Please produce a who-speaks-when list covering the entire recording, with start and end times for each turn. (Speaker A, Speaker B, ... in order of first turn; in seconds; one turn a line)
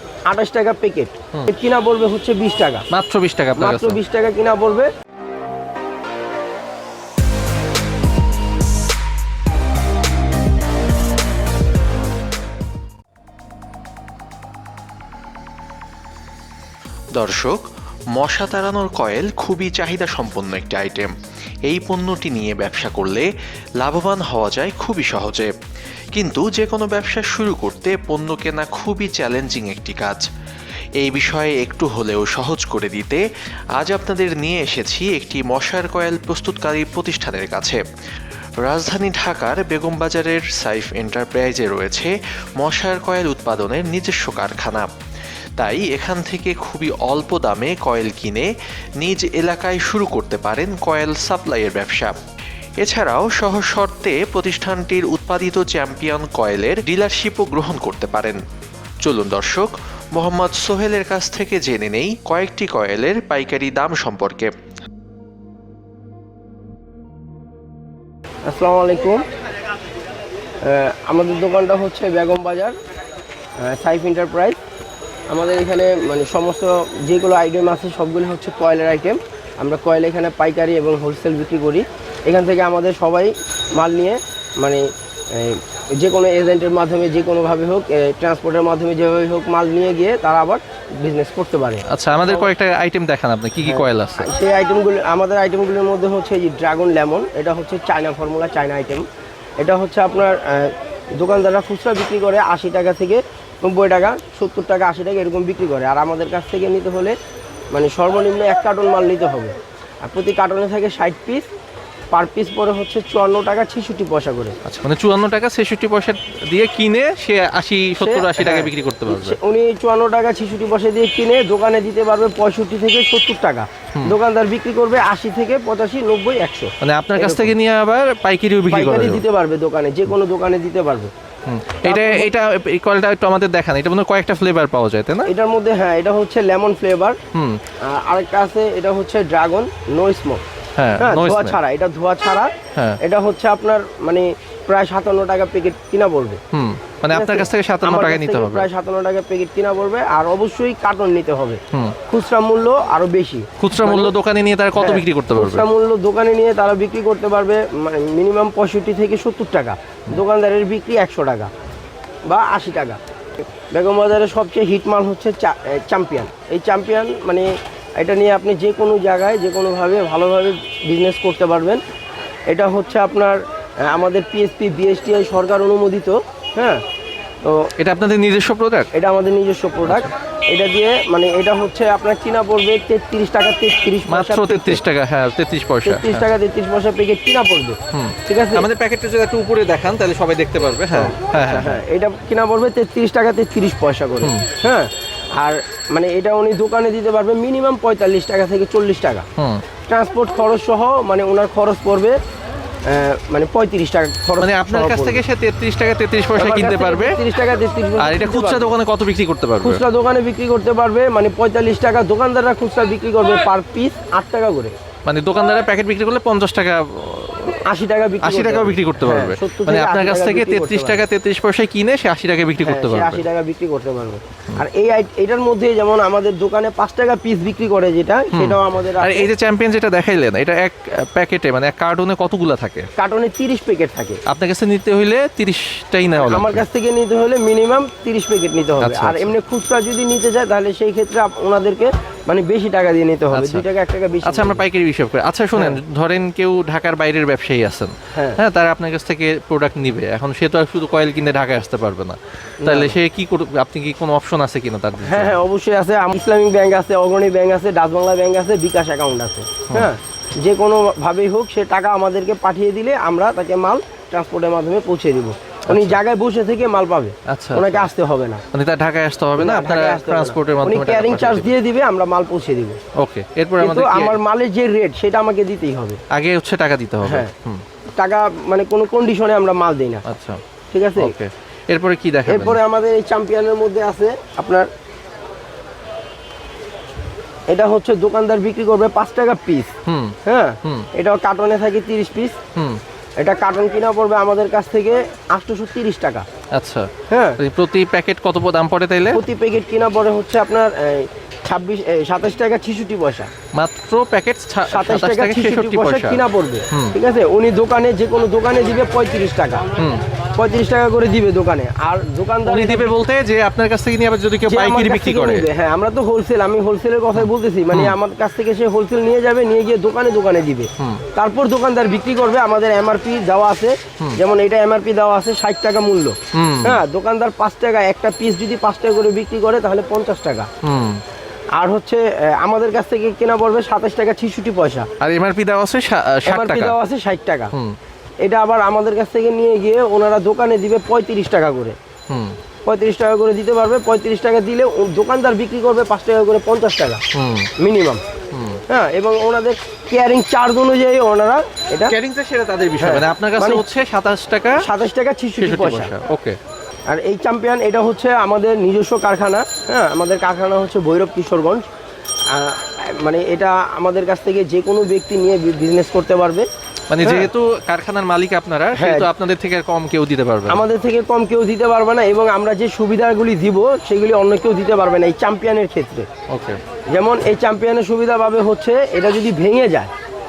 Speaker A: 0.3-2.9
Speaker B: 2.9-4.0
Speaker A: 3.6-4.9
Speaker C: 17.1-17.6
Speaker C: 18.1-21.1
Speaker C: 21.7-23.3
Speaker C: 23.8-25.5
Speaker C: 26.1-30.2
Speaker C: 31.0-33.2
Speaker C: 33.8-37.8
Speaker C: 38.6-44.9
Speaker C: 45.6-48.5
Speaker C: 49.0-52.2
Speaker C: 52.8-58.4
Speaker C: 59.0-64.5
Speaker A: 68.5-69.2
Speaker A: 70.6-72.8
Speaker A: 73.6-74.6
Speaker A: 75.3-92.5
Speaker B: 91.9-94.3
Speaker A: 93.6-99.0
Speaker A: 99.6-107.2
Speaker A: 107.7-111.5
Speaker A: 112.1-114.5
Speaker B: 114.6-119.4
Speaker A: 118.0-127.5
Speaker B: 126.8-129.2
Speaker A: 128.7-131.1
Speaker B: 131.5-135.3
Speaker A: 131.8-132.3
Speaker A: 135.3-137.2
Speaker B: 137.3-137.6
Speaker A: 137.8-140.4
Speaker B: 140.8-141.6
Speaker A: 141.0-146.4
Speaker B: 146.5-148.7
Speaker A: 147.1-154.1
Speaker B: 151.7-151.9
Speaker B: 153.6-155.7
Speaker A: 154.8-161.5
Speaker A: 162.3-163.0
Speaker A: 163.7-171.8
Speaker A: 172.5-176.8
Speaker A: 177.4-177.7
Speaker B: 177.8-178.9
Speaker A: 178.9-184.8
Speaker B: 184.1-186.2
Speaker A: 185.8-188.7
Speaker B: 187.9-191.8
Speaker A: 190.9-199.2
Speaker B: 199.4-199.6
Speaker A: 199.9-202.2
Speaker A: 202.9-205.2
Speaker B: 204.4-207.2
Speaker A: 206.3-208.7
Speaker B: 208.0-209.8
Speaker A: 209.6-214.7
Speaker B: 215.1-217.6
Speaker A: 217.7-221.0
Speaker B: 218.2-223.2
Speaker A: 222.6-229.3
Speaker B: 228.3-232.9
Speaker A: 233.0-234.2
Speaker B: 234.3-236.6
Speaker A: 236.1-244.6
Speaker B: 238.8-239.3
Speaker B: 243.3-243.6
Speaker B: 244.2-255.3
Speaker A: 248.1-248.4
Speaker A: 252.6-252.9
Speaker A: 255.0-268.4
Speaker B: 265.7-266.0
Speaker B: 267.3-267.9
Speaker B: 268.5-271.5
Speaker A: 269.3-272.8
Speaker B: 273.0-274.2
Speaker A: 273.6-276.0
Speaker B: 276.1-277.6
Speaker A: 277.0-277.3
Speaker A: 278.0-280.0
Speaker B: 280.1-280.4
Speaker A: 280.7-281.1
Speaker B: 281.0-282.6
Speaker A: 282.3-284.7
Speaker A: 287.5-289.7
Speaker B: 289.9-290.9
Speaker A: 290.2-292.4
Speaker B: 292.5-292.8
Speaker A: 293.2-296.2
Speaker B: 296.5-299.2
Speaker A: 297.1-297.4
Speaker A: 299.1-303.3
Speaker B: 303.5-306.9
Speaker A: 304.7-309.7
Speaker B: 309.8-310.0
Speaker A: 310.4-312.9
Speaker B: 312.4-315.5
Speaker A: 314.4-330.5
Speaker B: 317.1-317.9
Speaker B: 320.8-321.0
Speaker B: 326.3-326.8
Speaker B: 330.6-331.0
Speaker A: 331.6-334.9
Speaker B: 335.0-336.8
Speaker A: 336.2-337.5
Speaker A: 338.2-341.8
Speaker B: 342.1-342.4
Speaker A: 342.6-347.0
Speaker B: 347.1-347.5
Speaker A: 347.6-348.0
Speaker B: 348.3-348.6
Speaker A: 348.7-351.9
Speaker B: 351.9-354.7
Speaker A: 352.8-353.6
Speaker A: 354.6-355.9
Speaker B: 355.4-356.4
Speaker A: 356.9-361.6
Speaker A: 362.3-366.4
Speaker B: 366.9-370.6
Speaker A: 367.0-367.3
Speaker A: 368.7-369.1
Speaker A: 370.5-376.1
Speaker B: 376.3-376.6
Speaker A: 376.9-379.9